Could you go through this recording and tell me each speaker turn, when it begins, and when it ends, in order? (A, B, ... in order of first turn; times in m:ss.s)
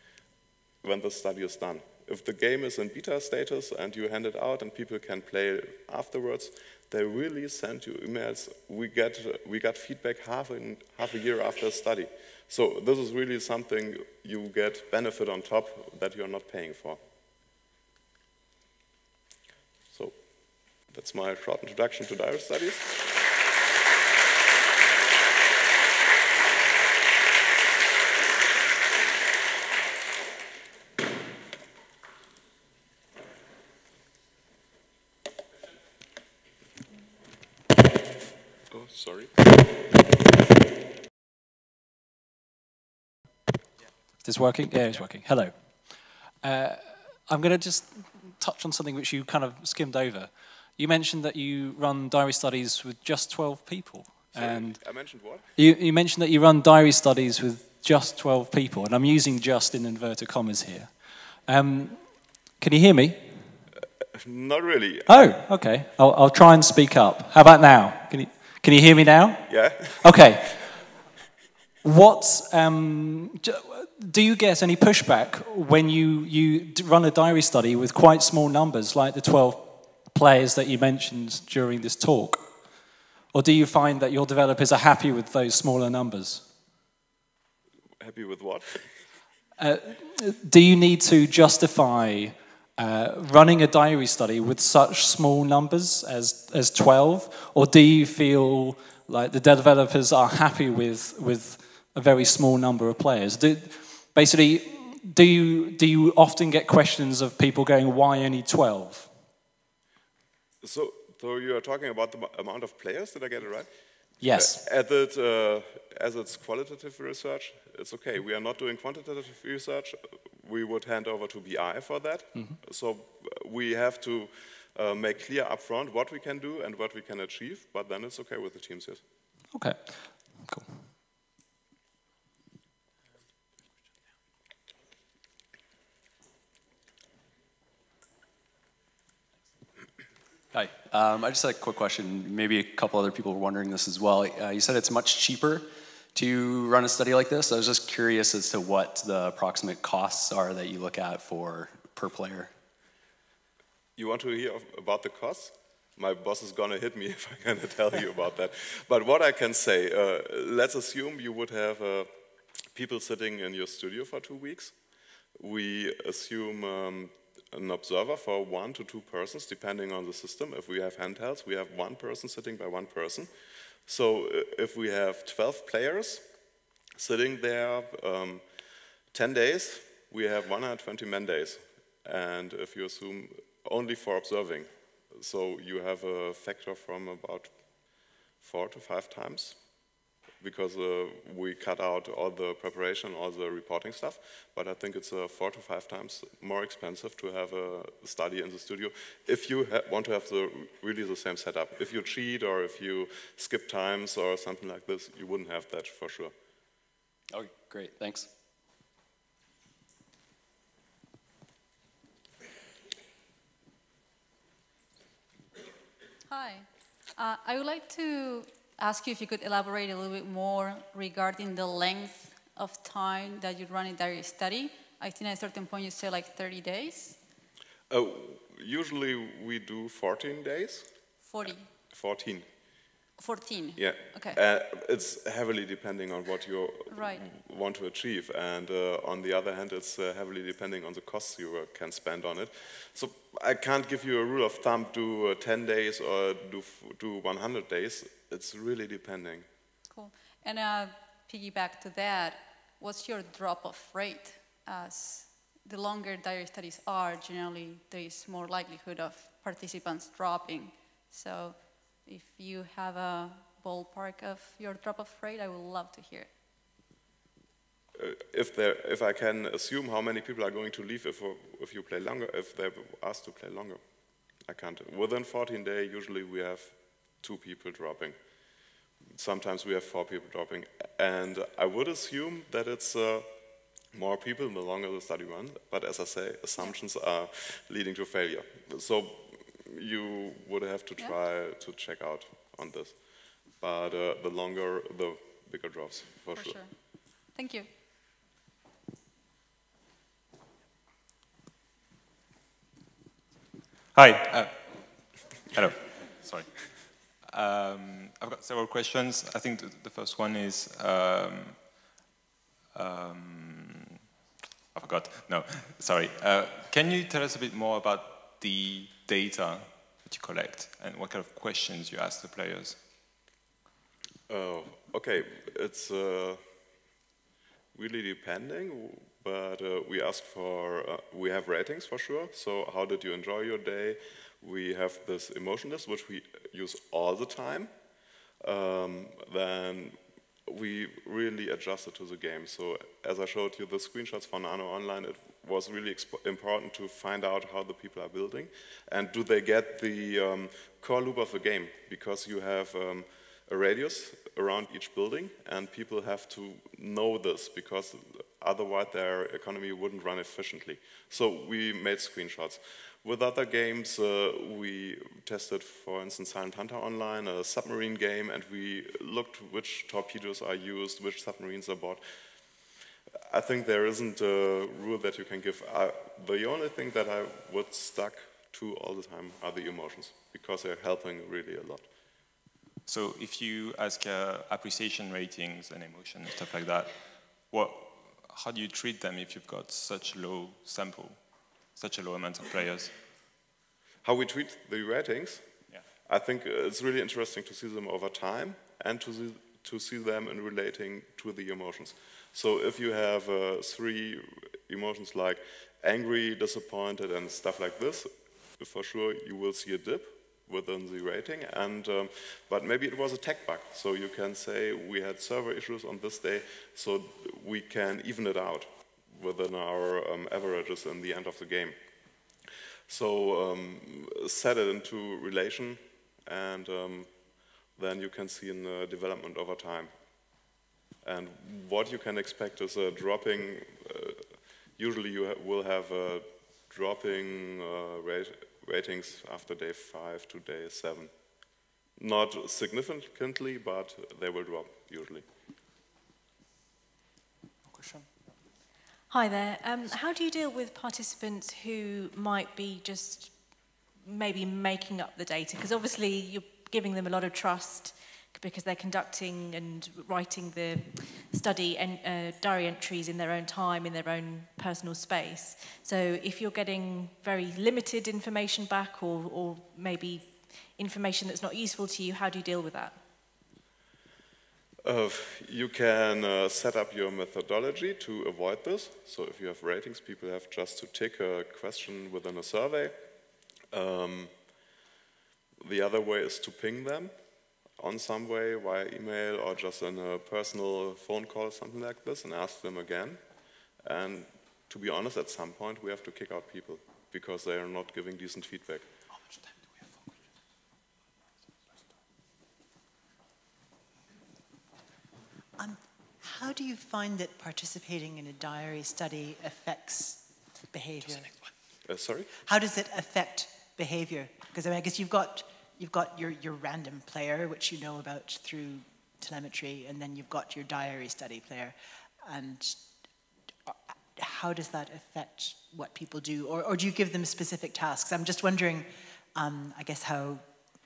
0:00.8-0:17.0 A
0:20.9-0:23.0 A
0:38.7-0:39.3 A
0:44.2-0:54.8 B
0:54.4-0:55.5 A
0:55.6-1:03.6 B
1:04.2-1:05.1 A
1:05.1-1:10.8 B
1:09.5-1:10.1 A
1:11.8-1:22.5 B
1:23.3-1:26.4 B
1:28.0-1:28.9 A
1:29.6-1:49.1 B
1:50.6-1:53.7 A
1:54.2-1:54.6 B
1:54.3-2:09.0 A
2:09.5-2:10.8 B
2:20.5-2:32.5 C
2:34.0-2:42.1 A
2:42.7-2:44.8 A
2:45.4-2:53.3 A
2:53.9-2:56.2 A
2:57.0-2:58.4 A
2:59.1-3:07.5 A
3:08.4-3:09.6 A
3:10.4-3:26.3 A
3:27.3-3:28.3 C
3:36.3-3:47.2 D
3:47.9-3:50.9 A
3:51.3-3:51.7 D
3:51.9-3:52.5 A
3:53.2-3:54.4 D
3:53.8-4:09.5 A
3:56.9-3:57.2 D
4:09.9-4:26.3 D
4:28.0-4:33.8 A
4:34.5-4:38.2 A
4:39.2-4:43.3 A
4:43.9-4:53.0 A
4:53.6-4:56.6 A
4:56.4-4:56.7 D
4:57.3-4:57.7 D
5:03.9-5:04.9 E
5:05.5-5:11.6 E
5:12.7-5:14.0 E
5:14.8-5:22.8 E
5:24.3-5:26.4 A
5:27.7-5:37.7 A
5:38.4-6:12.0 A
6:13.3-6:21.9 A
6:22.9-6:31.2 E
6:31.8-6:32.9 E
6:34.0-6:35.4 A
6:36.1-7:01.8 A
7:02.9-7:07.1 A
7:07.8-7:09.9 A
7:11.0-7:14.3 A
7:14.8-7:21.1 A
7:22.0-7:25.2 A
7:29.1-7:33.4 F
7:34.0-7:53.0 F
7:54.8-8:03.0 A
8:03.7-8:04.3 A
8:05.6-8:07.1 A
8:07.8-8:13.2 A
8:13.8-8:18.9 A
8:25.6-8:31.4 G
8:31.9-8:32.3 A
8:32.4-8:42.8 G
8:43.7-8:50.4 G